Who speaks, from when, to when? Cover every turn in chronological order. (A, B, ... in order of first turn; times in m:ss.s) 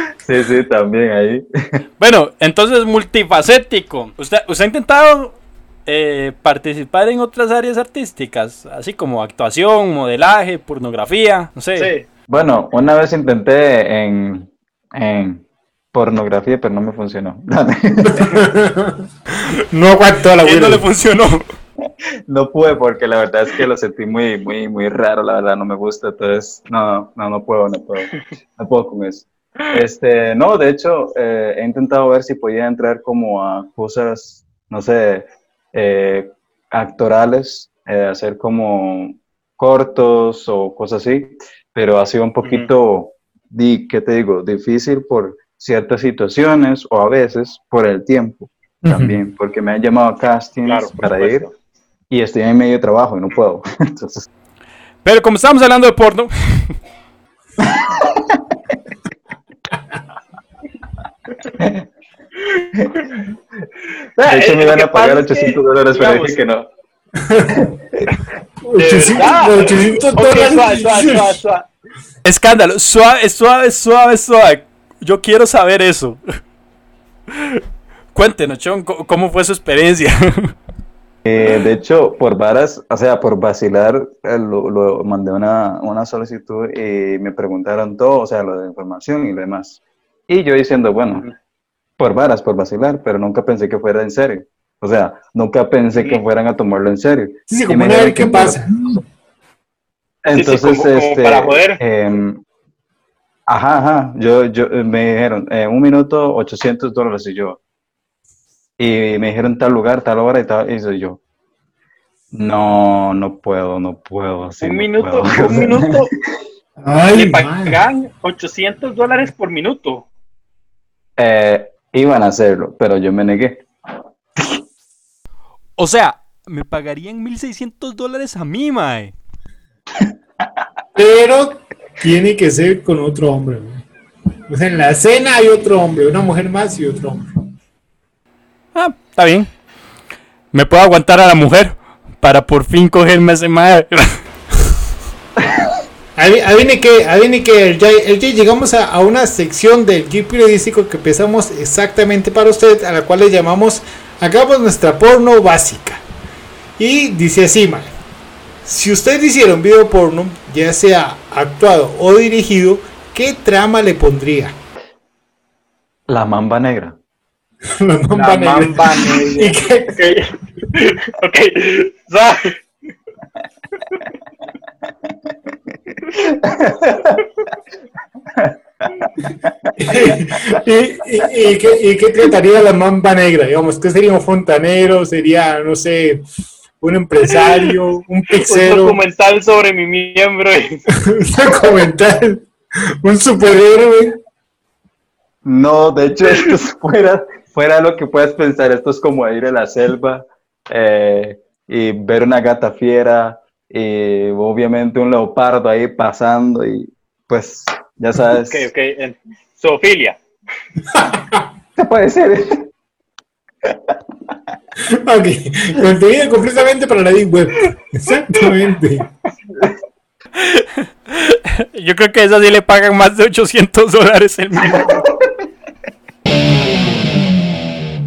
0:00.2-0:01.8 A
0:02.0-0:11.9 B
0:11.8-0:12.0 C
0:12.3-0:18.4 A
0:18.0-0:19.0 D
0:19.7-0:20.8 D
0:20.4-0:21.4 B
0:22.3-0:51.5 A
0:48.8-0:49.2 D
0:50.6-0:51.5 C
0:52.1-0:54.3 A
0:55.0-0:56.7 B
0:57.6-0:58.4 A
1:01.4-1:01.8 A
1:04.2-1:06.4 C
1:04.2-1:06.7 A
1:07.2-1:07.7 D
1:07.6-1:08.2 A
1:08.6-1:11.4 D
1:08.8-1:11.7 C
1:12.2-1:16.2 B
1:18.1-1:20.5 B
1:21.2-1:31.3 A
1:32.0-1:39.0 A
1:36.0-1:36.2 C
1:37.5-1:39.0 D
1:40.2-1:42.4 A
1:40.3-1:41.8 C
1:43.5-1:47.6 A
1:48.8-1:51.2 A
1:52.3-1:56.1 A
1:54.6-1:56.1 C
1:56.8-1:57.8 D
1:57.1-2:00.0 C
2:01.2-2:03.7 A
2:05.8-2:09.1 B
2:11.0-2:13.8 D
2:14.5-2:17.3 D
2:18.8-2:19.5 B
2:20.5-2:24.2 B
2:26.2-2:36.0 D
2:36.8-2:37.9 D
2:38.6-2:44.6 D
2:46.1-2:47.0 A
2:47.8-2:50.0 D
2:48.2-2:52.6 C
2:55.9-2:57.2 A
2:58.3-3:00.6 A
2:59.8-3:06.2 D
3:06.8-3:09.0 D
3:07.4-3:07.7 C
3:08.3-3:10.8 C
3:11.0-3:12.5 D
3:13.0-3:14.2 D
3:15.4-3:28.7 A
3:28.2-3:30.2 C
3:30.9-3:31.4 D
3:31.8-3:32.7 A
3:33.6-3:34.0 A
3:34.9-3:39.1 D
3:40.4-3:45.1 B